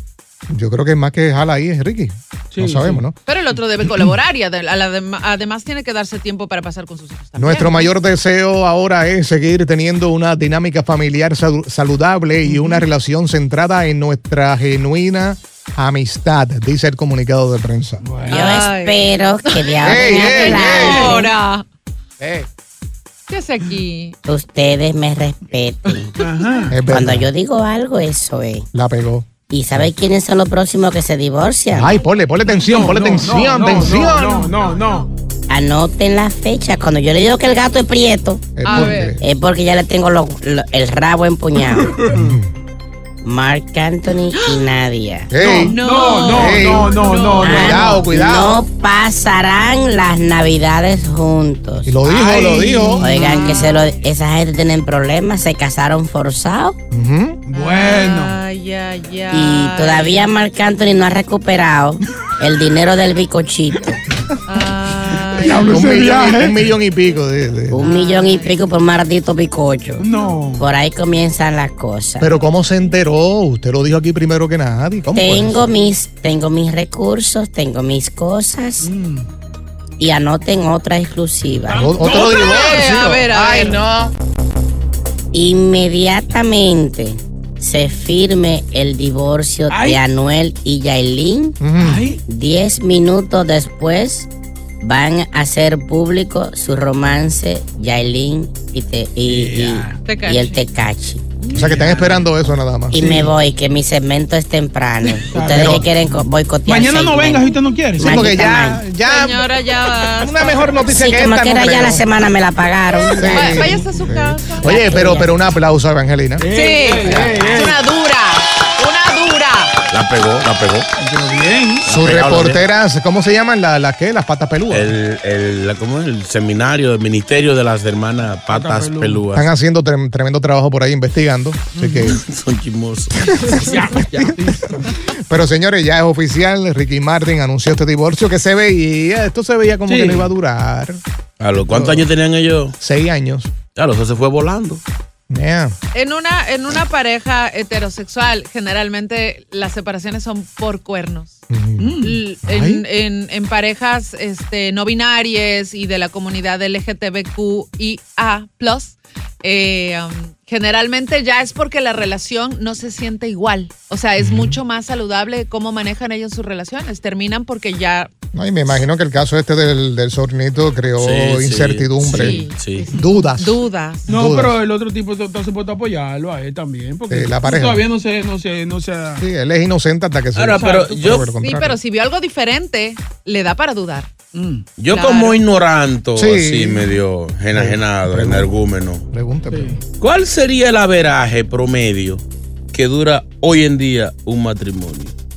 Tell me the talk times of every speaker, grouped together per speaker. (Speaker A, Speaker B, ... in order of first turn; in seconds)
Speaker A: 0.5-3.1, 7.4-18.1, 19.8-21.3, 22.2-22.5, 26.7-27.3, 28.7-29.9, 31.7-34.5, 38.6-39.2, 42.1-42.5, 45.3-48.6, 51.9-53.2, 56.9-57.4, 65.7-67.8, 72.2-75.6, 81.7-84.1, 91.6-92.1, 101.5-103.1, 105.5-105.9, 108.0-109.5, 110.2-112.0, 113.1-116.5, 117.0-117.4, 121.9-125.0, 129.3-132.2, 133.3-141.0, 142.8-143.5, 145.3-145.8, 151.5-152.8, 164.2-164.6, 168.3-174.6, 177.1-177.9, 179.2-181.8, 186.2-187.0, 187.5-188.5, 189.1-189.8
Speaker B: 2.5-3.1, 12.4-12.8, 18.0-18.5, 26.2-26.8, 32.5-35.1, 41.8-42.4, 45.4-48.1, 52.0-53.7, 57.5-58.4, 65.3-66.8, 70.0-70.6, 78.8-79.3, 81.7-82.6, 89.7-90.0, 91.7-92.2, 99.3-100.1, 101.5-102.3, 103.0-103.3, 105.3-108.3, 114.7-115.3, 116.4-117.9, 121.0-121.9, 128.5-129.3, 131.8-132.1, 133.4-134.8, 139.9-140.3, 141.7-142.0, 151.8-152.2, 174.1-179.2, 180.6-181.0, 184.3-184.7, 189.5-189.8
Speaker C: 3.3-7.9, 18.3-21.6, 23.3-24.1, 38.6-39.2, 45.6-47.6, 53.3-53.5, 57.5-60.3, 64.5-66.0, 67.8-68.5, 82.0-83.8, 100.0-100.6, 108.9-110.9, 113.0-115.2, 116.5-119.8, 145.9-151.4, 152.0-168.1, 172.1-174.1, 181.4-184.1, 184.9-185.4
Speaker D: 18.2-21.3, 24.3-26.1, 26.9-28.7, 29.5-32.0, 35.5-42.1, 43.2-45.4, 47.4-52.0, 53.0-56.8, 59.3-63.9, 67.7-72.4, 75.1-78.9, 80.0-82.0, 85.3-91.7, 92.2-94.3, 94.8-101.2, 102.9-108.9, 110.9-113.7
Speaker E: 119.9-120.9, 121.8-122.6, 124.7-129.5, 132.1-133.6, 141.4-142.8, 143.8-144.8, 171.0-172.9, 180.3-181.3, 184.8-189.1, 190.0-195.1